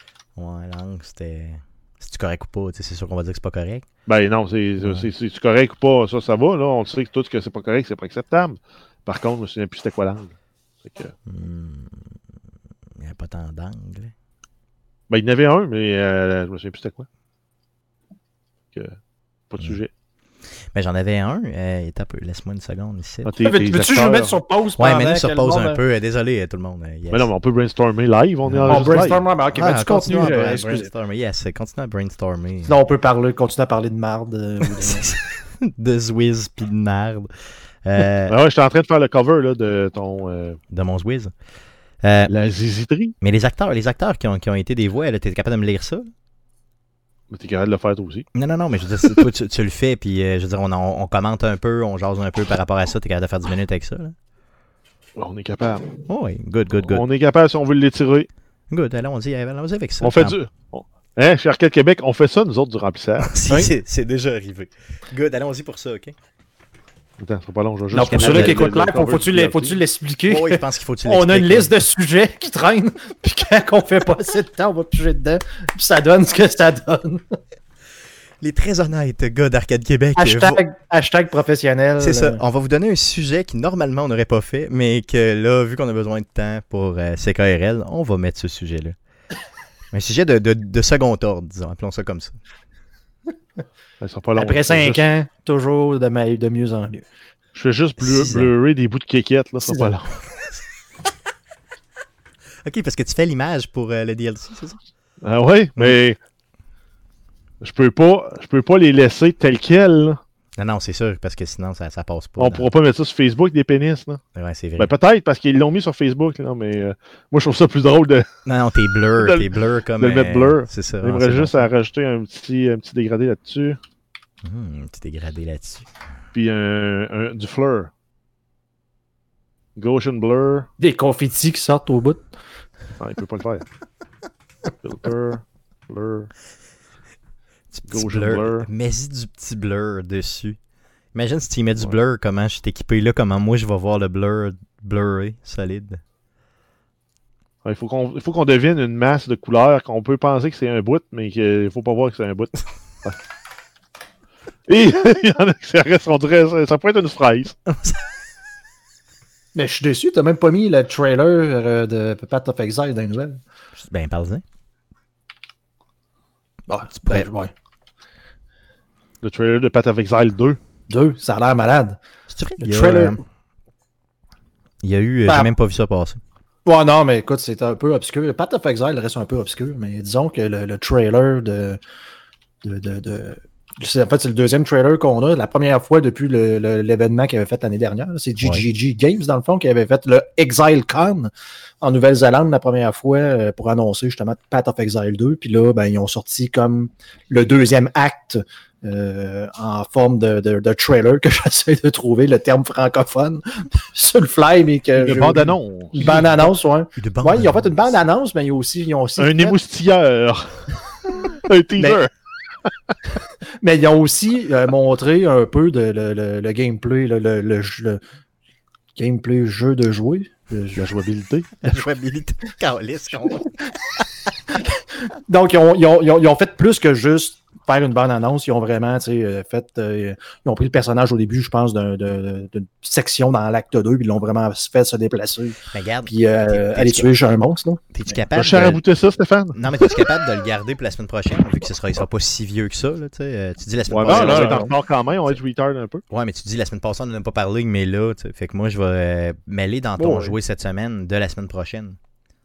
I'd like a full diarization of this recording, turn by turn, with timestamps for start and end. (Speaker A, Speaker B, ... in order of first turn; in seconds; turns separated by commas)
Speaker A: 0.4-3.9, Speaker B: 4.1-10.3, Speaker A: 4.8-5.1, Speaker B: 10.8-11.1, Speaker A: 11.3-12.0, Speaker A: 13.0-14.1, Speaker B: 15.1-17.1, Speaker B: 19.5-19.9, Speaker A: 20.7-23.4, Speaker B: 23.2-24.4, Speaker C: 23.4-25.8, Speaker A: 24.8-27.3, Speaker B: 27.1-29.2, Speaker A: 28.5-32.8, Speaker C: 28.7-30.9, Speaker C: 32.7-35.0, Speaker A: 34.6-37.3, Speaker A: 37.9-38.4, Speaker B: 38.3-40.6, Speaker A: 40.7-41.3, Speaker A: 42.0-42.3, Speaker B: 42.3-43.1, Speaker A: 43.2-46.1, Speaker B: 47.3-48.2, Speaker A: 48.3-54.1, Speaker B: 55.2-55.9, Speaker A: 56.1-57.0, Speaker B: 56.8-58.3, Speaker A: 58.7-60.4, Speaker B: 60.0-63.7, Speaker A: 63.2-66.1, Speaker B: 67.2-69.8, Speaker C: 67.9-77.2, Speaker A: 68.0-68.6, Speaker A: 70.3-71.7, Speaker A: 78.4-80.6, Speaker C: 80.2-82.4, Speaker A: 82.0-89.0, Speaker A: 89.9-92.3, Speaker B: 94.0-95.0, Speaker C: 94.4-97.1, Speaker B: 97.5-100.2, Speaker A: 98.0-98.5, Speaker C: 99.7-99.9, Speaker A: 102.6-104.8, Speaker B: 105.2-106.2, Speaker B: 107.6-110.2, Speaker A: 110.6-112.7, Speaker B: 112.4-114.2, Speaker A: 114.3-114.9, Speaker B: 114.8-118.3, Speaker A: 118.5-121.6, Speaker B: 119.2-123.8, Speaker A: 124.4-125.9, Speaker B: 126.3-127.9, Speaker B: 129.8-130.7, Speaker C: 130.8-132.2, Speaker B: 133.0-133.7, Speaker B: 134.8-136.3, Speaker A: 137.7-140.6, Speaker B: 137.9-138.7, Speaker A: 141.1-146.0, Speaker B: 147.6-153.2, Speaker B: 154.7-157.6, Speaker A: 157.7-158.0, Speaker C: 159.5-163.4, Speaker A: 163.8-164.4, Speaker C: 166.7-167.5, Speaker B: 169.2-170.6, Speaker C: 170.9-172.0, Speaker A: 172.3-173.2, Speaker C: 172.6-173.2, Speaker A: 174.8-176.2, Speaker C: 175.3-175.5, Speaker C: 176.7-181.8, Speaker C: 182.6-191.3, Speaker C: 191.8-209.6, Speaker B: 205.0-206.2, Speaker A: 206.0-206.3, Speaker A: 207.0-207.7, Speaker B: 209.2-212.1, Speaker C: 213.6-218.0, Speaker C: 218.9-220.9, Speaker B: 220.8-221.5, Speaker A: 221.6-223.6, Speaker C: 225.3-237.8, Speaker A: 235.7-237.1, Speaker A: 237.9-238.8, Speaker B: 238.3-239.6, Speaker A: 239.5-244.6, Speaker B: 243.9-246.0, Speaker C: 244.1-244.7, Speaker A: 246.1-252.0, Speaker C: 250.0-250.4